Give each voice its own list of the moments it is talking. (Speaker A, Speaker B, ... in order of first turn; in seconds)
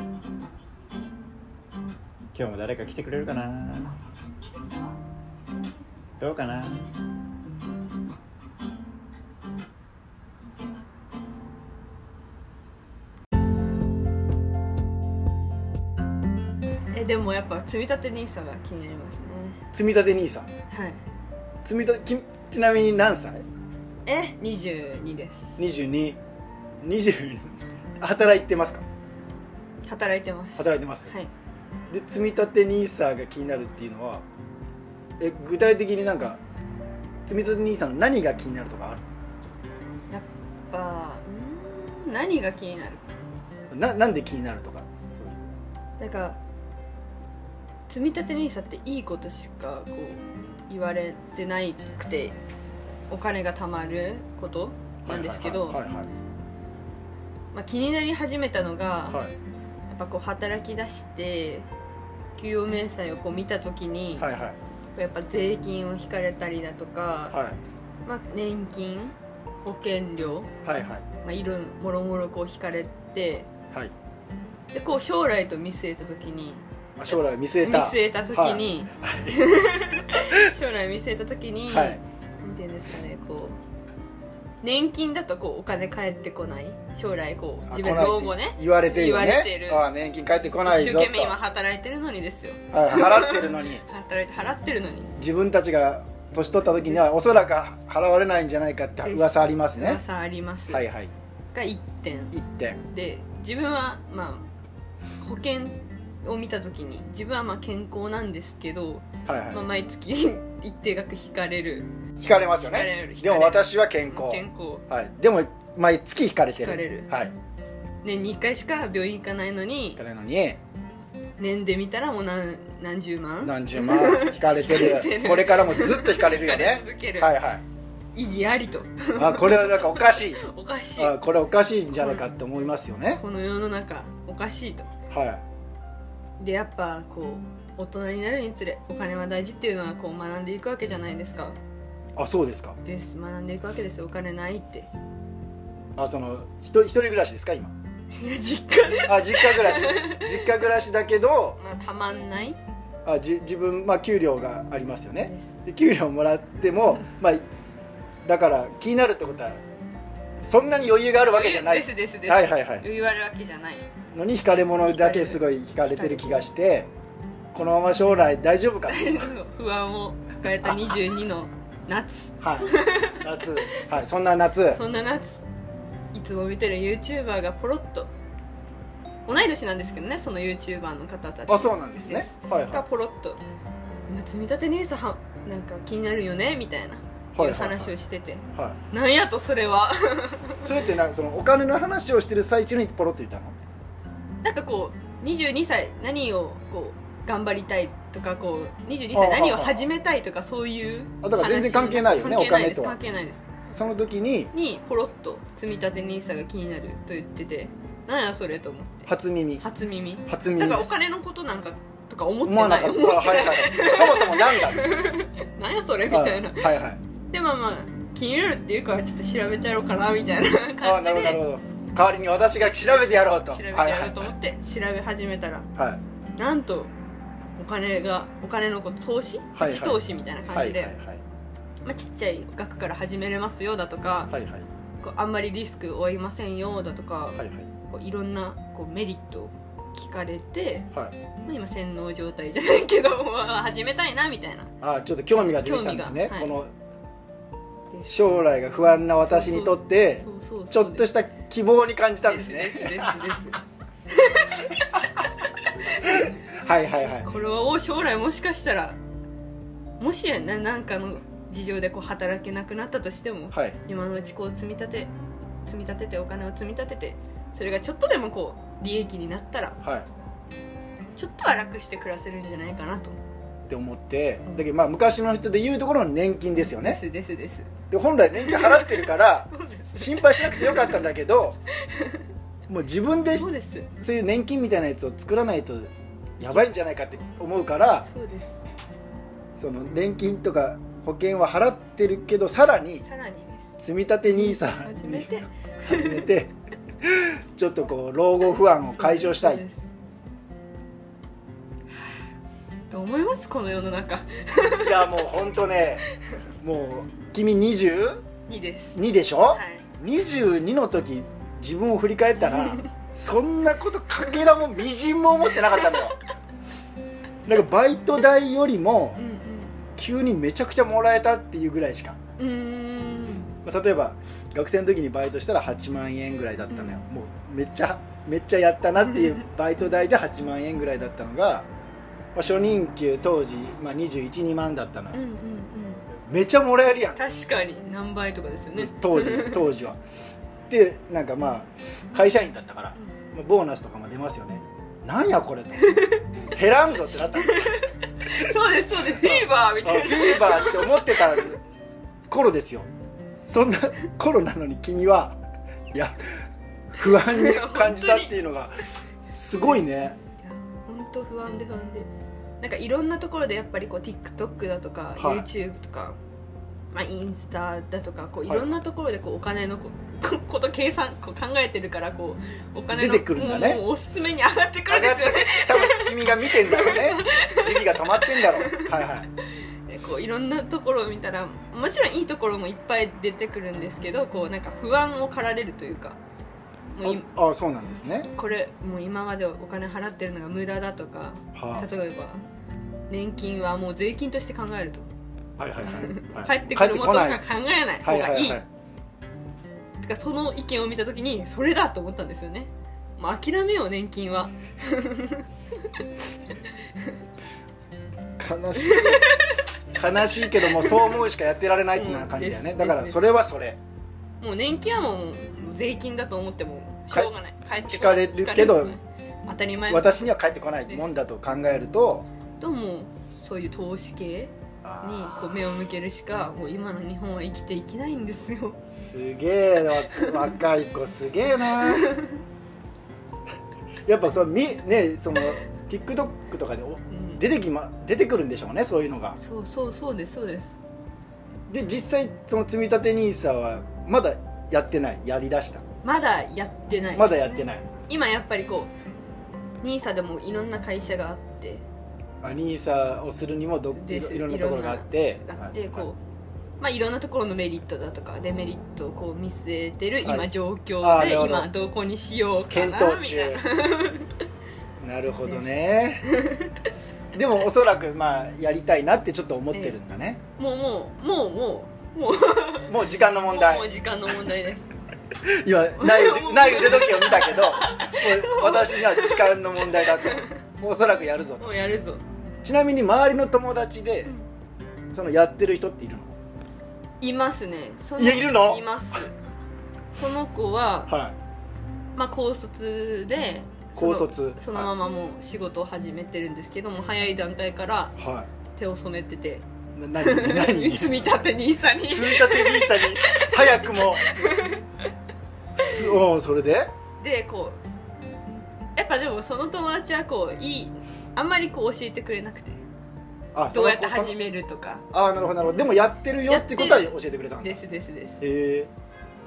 Speaker A: 2.3-4.0, 6.2-6.9, 19.7-20.5, 21.6-23.4, 25.6-26.2, 26.8-28.9, 30.6-31.1, 31.9-34.2, 35.2-36.4, 37.3-39.0, 43.7-45.5, 55.0-56.1, 64.2-64.6, 67.3-67.6, 70.6-71.0, 77.0-79.6, 81.7-82.0, 87.7-91.4, 92.7-93.8, 95.2-100.0, 100.7-101.1, 102.3-102.8, 109.3-109.6, 112.2-117.3, 120.0-120.6, 123.4-127.6, 129.2-130.4, 131.0-133.2, 135.1-135.4, 142.2-142.8, 146.0-147.8, 149.0-151.6, 153.1-157.4, 158.2-159.6, 160.4-162.8, 164.1-166.9, 167.5-169.3, 170.6-170.9, 172.4-174.8, 181.5-182.8, 187.3-187.9, 188.5-188.8, 190.6-193.6, 199.1-199.8, 201.2-203.0, 203.7-204.5, 209.1-209.6, 210.3-210.9, 212.4-215.0, 216.1-217.0, 220.8-224.3, 229.6-231.2, 234.3-234.7, 237.4-237.7, 244.8-246.7, 248.1-253.3, 256.0-257.3, 263.5-263.8, 269.8-270.1, 273.7-277.0, 277.9-281.6, 282.7-288.1, 289.6-293.0, 293.8-299.6, 304.8-306.1, 306.6-308.2, 308.9-316.2, 317.5-319.2, 320.0-322.2, 323.6-331.7, 332.4-335.2, 336.2-337.2, 338.8-340.0, 340.7-346.0, 346.5-347.8, 348.9-351.6, 352.3-352.9, 353.4-355.4, 355.9-356.2, 356.9-360.2, 365.2-365.5, 368.5-368.8, 372.9-373.8, 374.9-379.3, 387.0-388.3, 391.6-391.9, 395.6-397.4, 398.0-398.7, 408.4-413.8, 417.1-419.0, 419.9-422.3, 424.8-425.8, 428.8-432.2, 434.1-439.4, 441.7-445.8, 447.1-447.9, 452.4-456.1, 460.2-460.5, 461.0-461.7, 462.7-463.6, 465.0-466.2, 467.3-470.4, 472.9-473.9, 475.5-481.7, 482.6-484.3, 485.1-486.4, 488.2-489.2, 491.1-491.4, 494.0-494.9, 498.2-498.5, 500.0-501.3, 502.1-504.4, 505.8-506.9, 513.5-514.4, 515.1-517.8, 518.4-518.9
Speaker B: 16.9-19.6, 20.7-21.0, 24.1-25.6, 29.9-31.3, 40.1-43.1, 46.0-46.4, 47.9-52.4, 53.1-55.8, 57.5-59.2, 59.9-61.7, 62.4-64.3, 65.0-67.4, 68.0-70.5, 71.2-73.5, 74.7-83.6, 84.6-89.9, 90.6-95.1, 96.7-97.2, 99.0-100.8, 101.5-102.4, 102.9-104.5, 105.2-111.9, 112.7-114.8, 116.5-117.1, 118.0-120.0, 121.4-127.4, 128.1-131.2, 132.0-132.2, 133.2-134.9, 136.4-141.6, 142.8-144.9, 148.2-150.4, 151.6-152.6, 155.2-155.5, 161.3-163.9, 164.9-166.4, 168.9-173.8, 174.7-175.4, 176.1-178.1, 179.3-183.4, 184.1-190.7, 194.4-203.5, 204.5-209.1, 209.6-216.8, 217.3-221.4, 222.5-225.7, 226.4-226.9, 227.6-230.9, 231.8-234.3, 235.0-240.9, 241.4-244.7, 245.4-246.6, 247.9-248.3, 249.2-251.1, 252.2-256.4, 257.0-259.0, 260.0-265.1, 265.7-269.8, 271.2-273.2, 276.8-277.7, 278.4-281.0, 281.9-282.2, 283.4-283.9, 288.1-288.6, 293.0-296.3, 298.9-299.9, 302.9-305.2, 308.5-309.9, 312.5-312.9, 319.2-319.8, 322.4-323.5, 326.7-327.0, 329.1-329.4, 335.1-336.1, 337.2-339.7, 345.9-346.2, 347.4-351.5, 357.0-358.3, 360.4-362.1, 362.6-366.2, 366.9-379.0, 379.9-386.2, 386.9-387.3, 388.3-392.4, 393.1-395.1, 395.8-398.6, 400.0-405.5, 408.8-409.7, 410.5-411.2, 411.9-413.3, 414.4-420.3, 420.9-421.2, 422.6-428.8, 431.8-432.4, 437.1-437.4, 439.4-440.8, 446.0-448.9, 449.8-451.8, 453.9-456.2, 456.8-464.3, 466.2-466.8, 469.7-470.0, 470.6-473.0, 473.5-474.9, 476.0-480.6, 481.6-482.2, 487.2-489.3, 490.1-491.1, 492.2-498.1, 498.8-499.6, 500.2-504.9, 507.2-507.8, 509.0-512.8, 513.7-515.1, 516.5-518.4